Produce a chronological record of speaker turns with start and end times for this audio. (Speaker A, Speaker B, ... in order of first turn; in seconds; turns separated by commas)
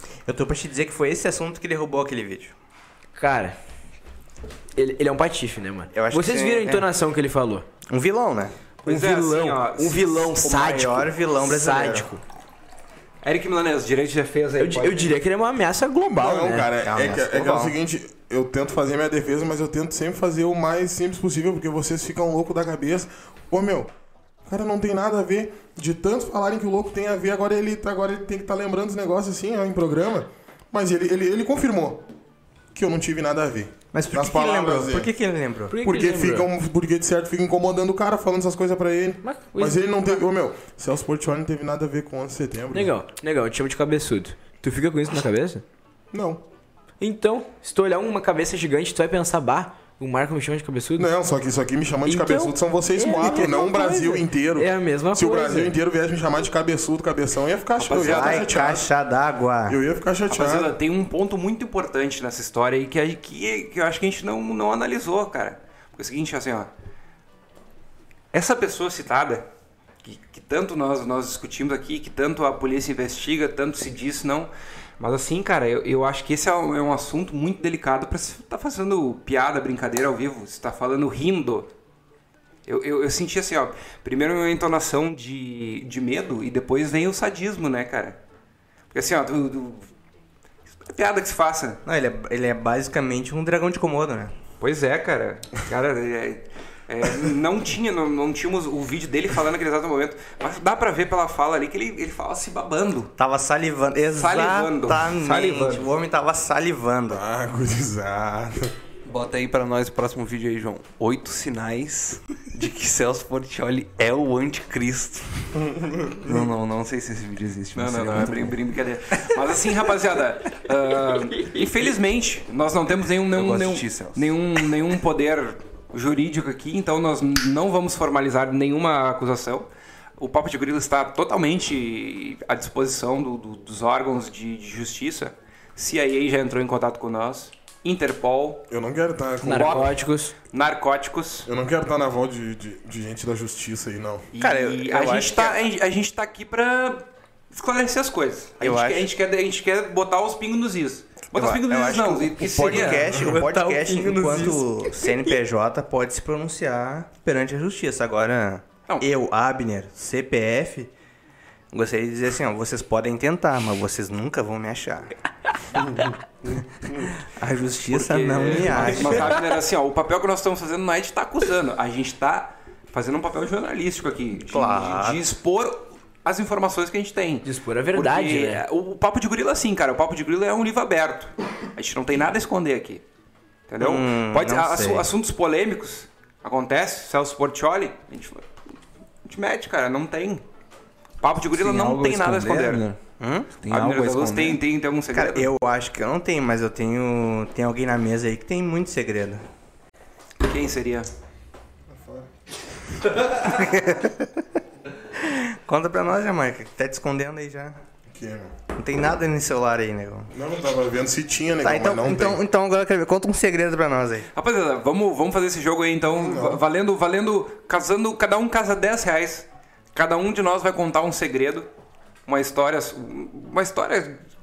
Speaker A: 0.2-2.5, Speaker B: 3.1-3.5, Speaker B: 4.8-7.6, Speaker A: 5.9-6.9, Speaker A: 7.9-8.5, Speaker C: 8.8-10.3, Speaker B: 8.8-12.2, Speaker A: 10.4-12.1, Speaker C: 13.2-15.2, Speaker B: 14.6-16.7, Speaker D: 16.0-23.9, Speaker A: 16.8-17.7, Speaker D: 24.4-32.0, Speaker D: 32.7-35.1, Speaker A: 33.9-35.7, Speaker B: 35.7-36.5, Speaker D: 35.8-42.9, Speaker B: 39.2-40.2, Speaker B: 42.7-45.6, Speaker D: 46.1-46.4, Speaker B: 47.0-51.1, Speaker D: 51.0-58.9, Speaker B: 52.0-55.7, Speaker C: 57.8-58.8, Speaker A: 58.0-59.8, Speaker D: 59.7-60.7, Speaker C: 60.3-66.7, Speaker C: 68.3-69.5, Speaker C: 70.0-81.7, Speaker C: 82.7-88.2, Speaker C: 88.9-89.9, Speaker C: 90.8-91.8, Speaker A: 91.8-94.3, Speaker C: 94.6-103.1, Speaker A: 103.2-107.2, Speaker C: 104.1-105.9, Speaker D: 107.1-108.7, Speaker E: 109.0-115.6, Speaker D: 115.8-116.4, Speaker E: 116.2-118.6, Speaker C: 117.7-138.6, Speaker E: 123.3-124.4, Speaker D: 138.7-139.9, Speaker B: 139.4-140.3, Speaker C: 139.5-139.9, Speaker C: 140.5-141.5, Speaker D: 141.4-144.3, Speaker C: 144.3-153.2, Speaker A: 144.4-145.6, Speaker A: 148.6-149.1, Speaker A: 151.3-160.9, Speaker B: 152.6-155.3, Speaker A: 161.7-165.1, Speaker A: 167.2-169.4, Speaker C: 167.9-183.0, Speaker E: 168.4-169.1, Speaker A: 174.5-175.2, Speaker B: 177.4-178.6, Speaker C: 183.7-188.5, Speaker A: 183.8-185.1, Speaker C: 189.2-190.4, Speaker C: 191.2-192.8, Speaker E: 191.5-193.0, Speaker A: 193.2-193.5, Speaker E: 193.6-194.6, Speaker C: 193.7-195.5, Speaker A: 195.1-199.4, Speaker C: 200.4-201.1, Speaker D: 201.9-202.3, Speaker A: 203.3-204.4, Speaker A: 205.2-207.8, Speaker D: 208.1-208.5, Speaker A: 208.7-210.3, Speaker D: 210.3-212.4, Speaker A: 211.6-214.3, Speaker C: 214.3-221.7, Speaker D: 216.2-216.6, Speaker C: 222.3-224.2